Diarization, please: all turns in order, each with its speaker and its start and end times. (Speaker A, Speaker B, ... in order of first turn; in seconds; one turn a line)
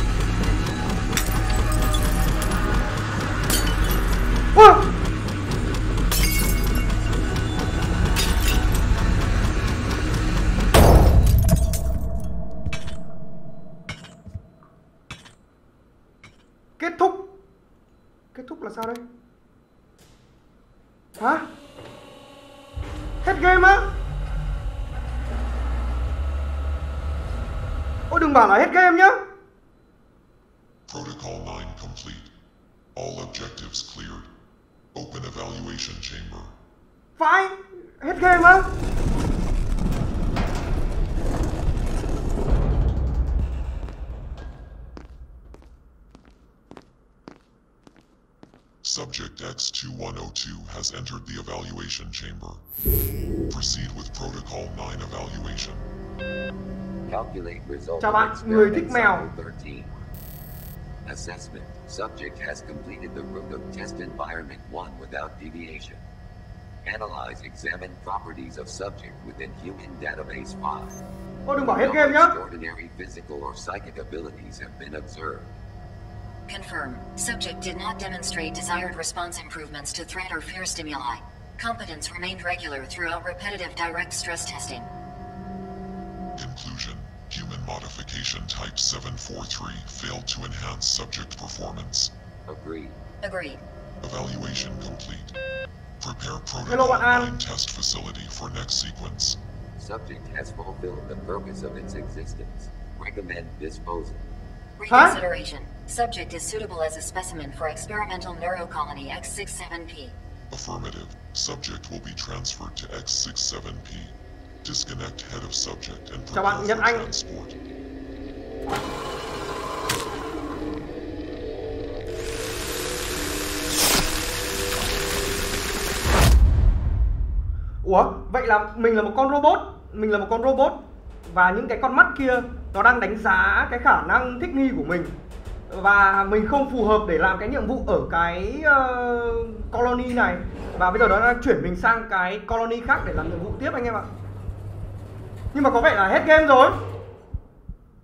Speaker A: 4.5-4.9
Speaker A: 16.8-17.3
Speaker A: 18.3-19.0
Speaker A: 21.2-21.5
Speaker A: 23.2-23.9
Speaker A: 28.1-29.2
Speaker B: 30.9-32.3
Speaker B: 32.9-34.3
Speaker B: 34.9-36.5
Speaker A: 37.2-38.7
Speaker B: 48.8-52.6
Speaker B: 53.5-55.9
Speaker C: 57.1-59.9
Speaker A: 58.0-59.2
Speaker C: 61.0-66.0
Speaker C: 66.8-71.0
Speaker A: 71.5-72.3
Speaker C: 71.6-75.5
Speaker D: 76.5-84.9
Speaker B: 86.3-92.1
Speaker C: 92.5-93.0
Speaker D: 93.2-93.6
Speaker B: 94.0-95.3
Speaker B: 96.0-99.4
Speaker A: 96.6-97.4
Speaker C: 99.8-104.2
Speaker D: 104.8-110.1
Speaker A: 104.9-105.2
Speaker B: 110.5-117.5
Speaker A: 116.3-117.1
Speaker A: 127.8-135.1
Speaker A: 135.7-144.1
Speaker A: 145.5-146.8